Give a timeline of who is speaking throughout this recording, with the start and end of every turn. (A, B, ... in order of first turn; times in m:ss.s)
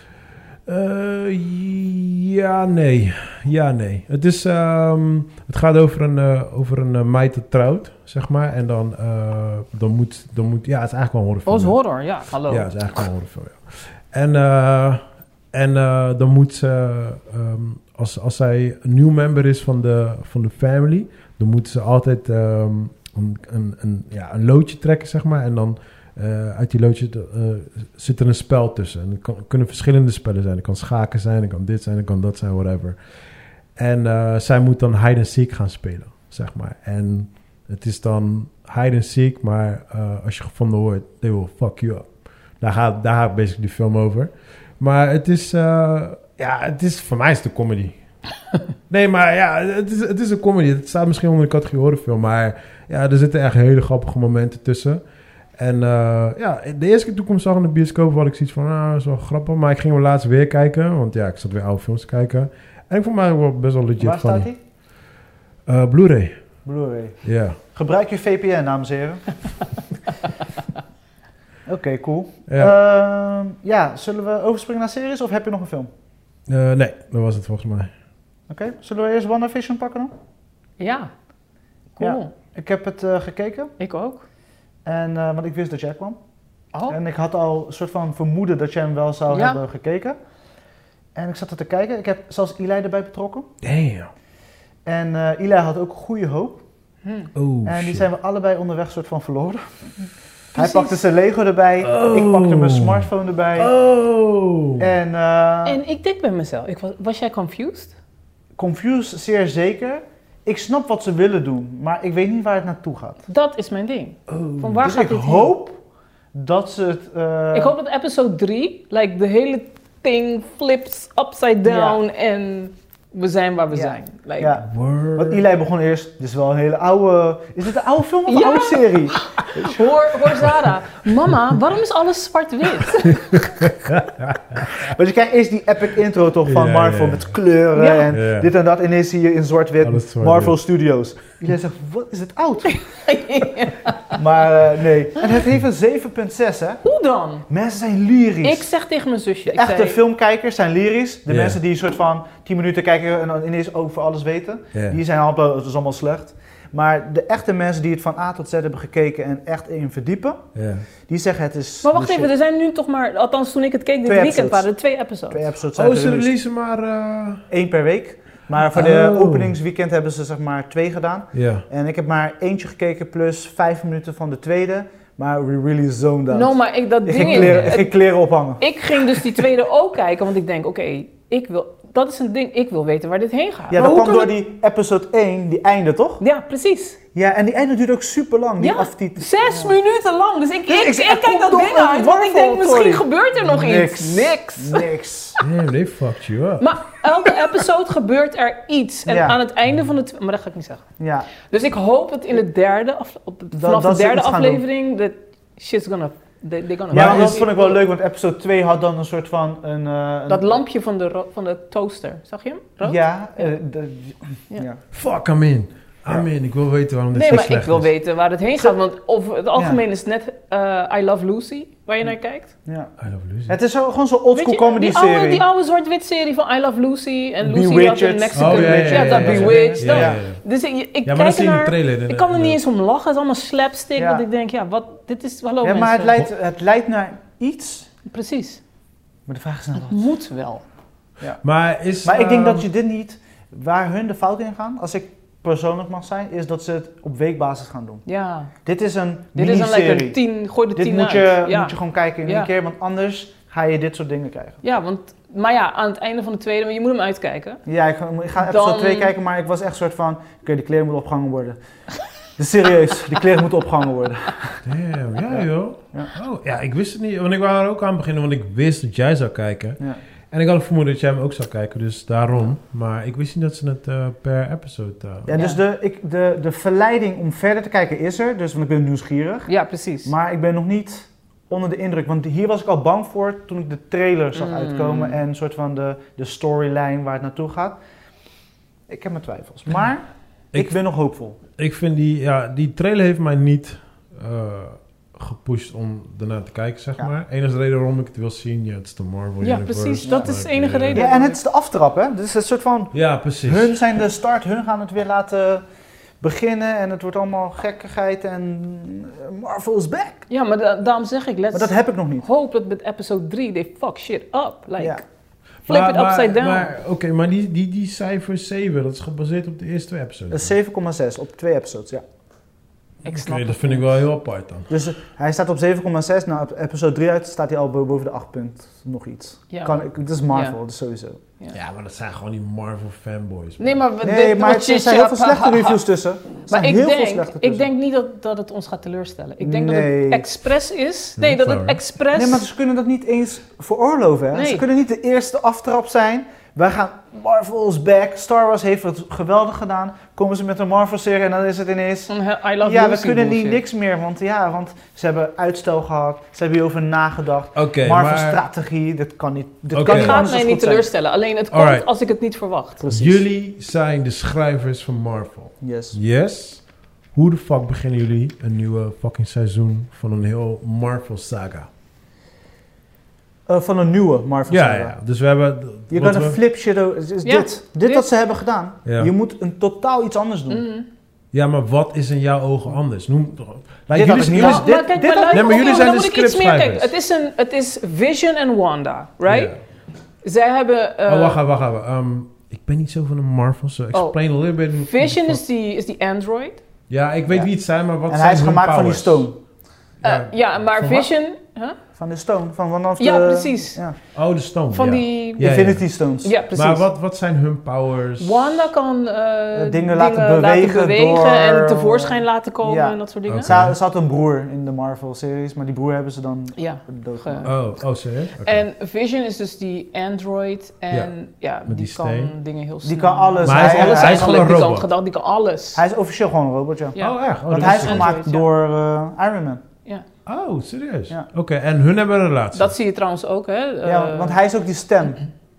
0:00.6-0:11.8 A
0:11.4-0:13.1 B
0:12.3-0:33.0 A
0:33.8-0:48.0 A
0:48.9-0:55.0 A
0:55.6-1:04.5 A
1:04.0-1:04.6 C
1:05.6-1:06.5 A
1:06.6-1:09.3 C
1:07.2-1:07.6 A
1:11.7-1:15.9 C
1:12.5-1:12.7 A
1:16.5-1:17.9 A
1:18.5-1:20.1 C
1:20.8-1:21.1 B
1:22.0-1:22.3 B
1:22.0-1:23.7 C
1:23.8-1:24.2 B
1:24.8-1:26.2 C
1:26.9-1:30.2 C
1:29.3-1:29.6 B
1:31.2-1:33.5 C
1:33.6-1:34.1 A
1:34.8-1:36.6 C
1:37.0-1:37.3 B
1:37.3-1:38.0 A
1:37.6-1:43.7 C
1:40.5-1:41.0 B
1:41.8-1:44.9 A
1:44.8-1:45.8 C
1:45.6-1:47.9 B
1:48.6-1:53.2 C
1:53.3-1:55.5 B
1:54.3-1:54.7 A
1:54.8-1:55.8 C
1:56.3-1:57.7 C
1:57.5-2:04.5 B
2:01.6-2:02.0 C
2:03.7-2:09.9 C
2:04.6-2:05.4 A
2:08.3-2:13.4 B
2:13.3-2:14.9 A
2:14.8-2:22.8 C
2:16.4-2:17.4 A
2:17.8-2:18.1 B
2:18.1-2:18.5 A
2:19.8-2:20.6 A
2:22.7-2:24.2 B
2:24.1-2:26.8 C
2:26.8-2:27.5 B
2:27.5-2:28.7 C
2:28.4-2:30.0 B
2:29.4-2:40.4 C
2:31.3-2:31.6 A
2:34.7-2:35.0 A
2:40.5-2:40.8 A
2:41.1-2:42.3 C
2:41.8-2:45.5 B
2:44.0-2:44.6 C
2:45.3-2:46.3 C
2:45.7-2:47.4 A
2:47.5-2:59.4 C
2:48.7-2:49.5 A
2:51.3-2:51.6 A
2:56.3-2:58.0 B
2:57.2-2:57.7 A
2:58.6-3:04.3 B
3:03.7-3:06.2 C
3:06.2-3:07.0 B
3:07.1-3:09.7 C
3:08.6-3:14.9 B
3:10.6-3:15.4 C
3:15.4-3:16.7 A
3:16.6-3:27.8 B
3:19.1-3:19.4 C
3:21.0-3:21.3 C
3:23.5-3:24.6 C
3:26.9-3:27.4 A
3:26.9-3:30.6 C
3:30.3-3:33.5 B
3:32.8-3:34.8 C
3:34.9-3:37.9 A
3:37.1-3:42.5 B
3:39.5-3:39.8 C
3:42.6-3:42.9 C
3:43.0-3:43.6 A
3:43.5-3:45.4 C
3:44.3-3:56.2 B
3:47.4-3:50.2 C
3:48.3-3:50.4 A
3:51.0-3:52.6 A
3:54.0-3:54.2 C
3:55.6-3:57.9 C
3:58.0-3:58.6 B
3:59.3-4:00.1 C
3:59.8-4:00.6 B
4:01.4-4:02.6 A
4:02.0-4:08.0 C
4:08.0-4:08.5 B
4:08.6-4:10.2 C
4:09.4-4:12.5 B
4:10.7-4:14.6 C
4:14.6-4:17.6 B
4:17.6-4:21.6 C
4:18.4-4:19.1 B
4:22.4-4:24.6 C
4:24.6-4:35.3 A
4:25.2-4:26.1 C
4:35.2-4:39.5 C
4:35.3-4:35.6 B
4:39.5-4:40.1 B
4:40.0-4:47.8 C
4:44.3-4:45.2 B
4:48.9-4:51.4 C
4:51.6-5:01.0 A
4:59.4-5:01.4 B
5:00.0-5:00.3 C
5:00.9-5:05.6 C
5:02.9-5:03.7 A
5:06.2-5:10.3 C
5:10.3-5:15.0 B
5:11.5-5:12.2 C
5:15.6-5:20.5 A
5:15.7-5:16.7 B
5:20.3-5:22.0 C
5:23.0-5:23.9 B
5:23.0-5:24.7 A
5:24.7-5:31.2 C
5:29.5-5:30.6 B
5:31.5-5:33.8 A
5:33.6-5:35.8 B
5:34.0-5:37.7 C
5:36.4-5:42.4 B
5:39.4-5:40.2 C
5:41.2-5:41.8 A
5:42.1-6:00.8 C
5:44.3-5:44.6 B
5:52.1-5:53.6 B
5:57.5-5:58.4 A
5:59.7-6:00.2 A
5:59.8-6:02.8 B
6:01.5-6:01.9 A
6:02.8-6:03.2 C
6:02.9-6:11.7 A
6:05.6-6:06.0 C
6:13.5-6:15.0 C
6:14.5-6:16.4 A
6:15.9-6:20.7 C
6:17.2-6:18.0 B
6:18.8-6:19.1 A
6:20.5-6:20.8 B
6:21.3-6:24.7 A
6:23.9-6:25.6 C
6:24.3-6:29.5 B
6:25.3-6:26.9 A
6:29.2-6:29.6 A
6:30.2-6:31.4 B
6:31.0-6:35.4 A
6:33.9-6:36.6 B
6:36.9-6:39.3 A
6:38.1-6:39.4 C
6:40.0-6:41.0 A
6:40.0-6:41.8 B
6:41.9-6:43.9 C
6:43.0-6:43.8 B
6:44.1-6:45.9 A
6:44.7-6:45.6 B
6:45.4-6:46.4 C
6:46.2-6:46.8 B
6:46.5-6:48.7 A
6:48.2-6:53.5 B
6:49.5-6:57.6 C
6:53.3-6:53.7 A
6:56.5-6:57.5 B
6:57.4-6:58.6 A
6:58.4-7:05.8 B
7:01.6-7:02.3 A
7:02.8-7:04.6 C
7:03.4-7:04.9 A
7:05.7-7:09.6 C
7:06.9-7:08.5 B
7:07.0-7:08.1 A
7:10.2-7:12.7 A
7:12.5-7:14.4 B
7:13.8-7:15.2 C